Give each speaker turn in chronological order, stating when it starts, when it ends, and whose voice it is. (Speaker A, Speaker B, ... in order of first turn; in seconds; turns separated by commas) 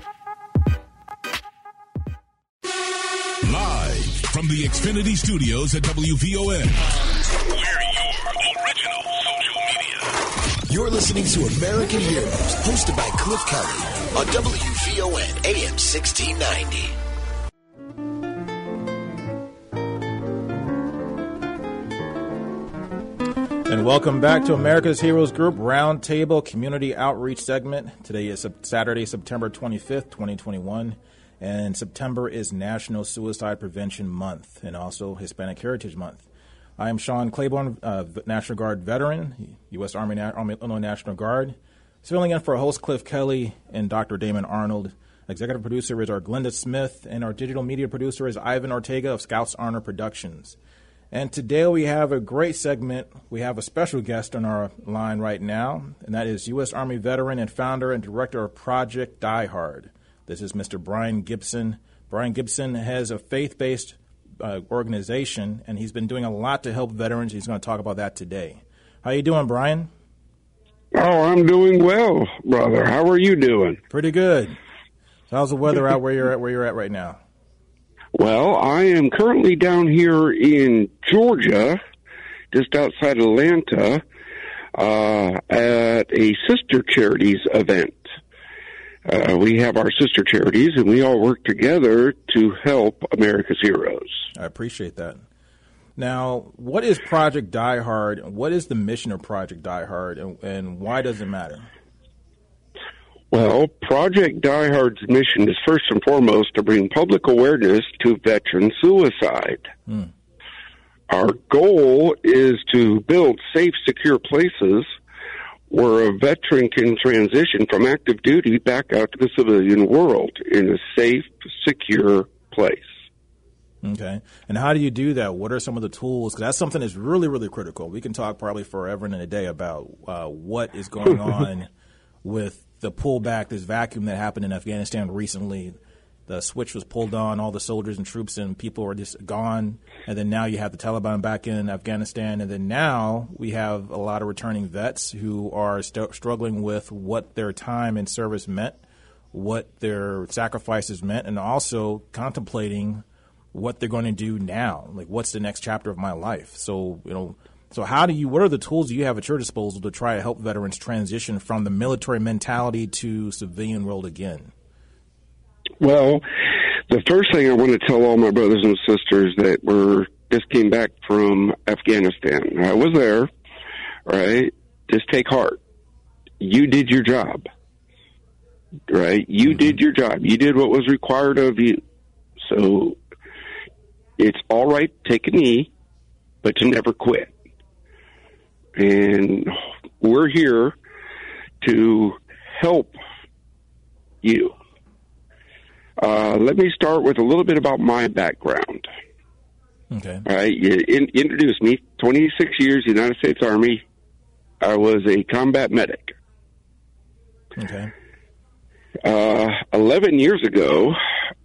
Speaker A: 3.4-10.2, Speaker B: 10.7-16.9, Speaker C: 23.7-36.2, Speaker C: 36.8-50.6, Speaker C: 51.1-69.9, Speaker D: 70.9-73.8, Speaker C: 73.9-74.6, Speaker C: 75.3-77.2, Speaker D: 78.1-81.8, Speaker D: 82.5-84.0, Speaker D: 84.7-88.0, Speaker D: 89.1-94.1, Speaker C: 94.3-95.2, Speaker C: 96.0-101.7, Speaker D: 103.3-109.7, Speaker D: 111.1-114.9, Speaker D: 115.7-122.9, Speaker C: 123.8-131.7, Speaker C: 132.2-135.7, Speaker C: 136.3-148.8, Speaker C: 149.3-164.5, Speaker D: 165.8-166.2, Speaker D: 166.9-173.3, Speaker D: 174.1-175.6, Speaker D: 176.4-177.4, Speaker D: 178.9-181.8, Speaker D: 182.4-183.0, Speaker D: 184.2-185.7, Speaker D: 186.4-187.3, Speaker D: 188.8-190.7, Speaker D: 191.6-192.9, Speaker D: 194.2-194.5, Speaker D: 196.0-198.9, Speaker C: 199.9-200.2, Speaker D: 200.2-203.8, Speaker D: 204.6-206.1, Speaker C: 207.6-207.9, Speaker D: 209.0-211.0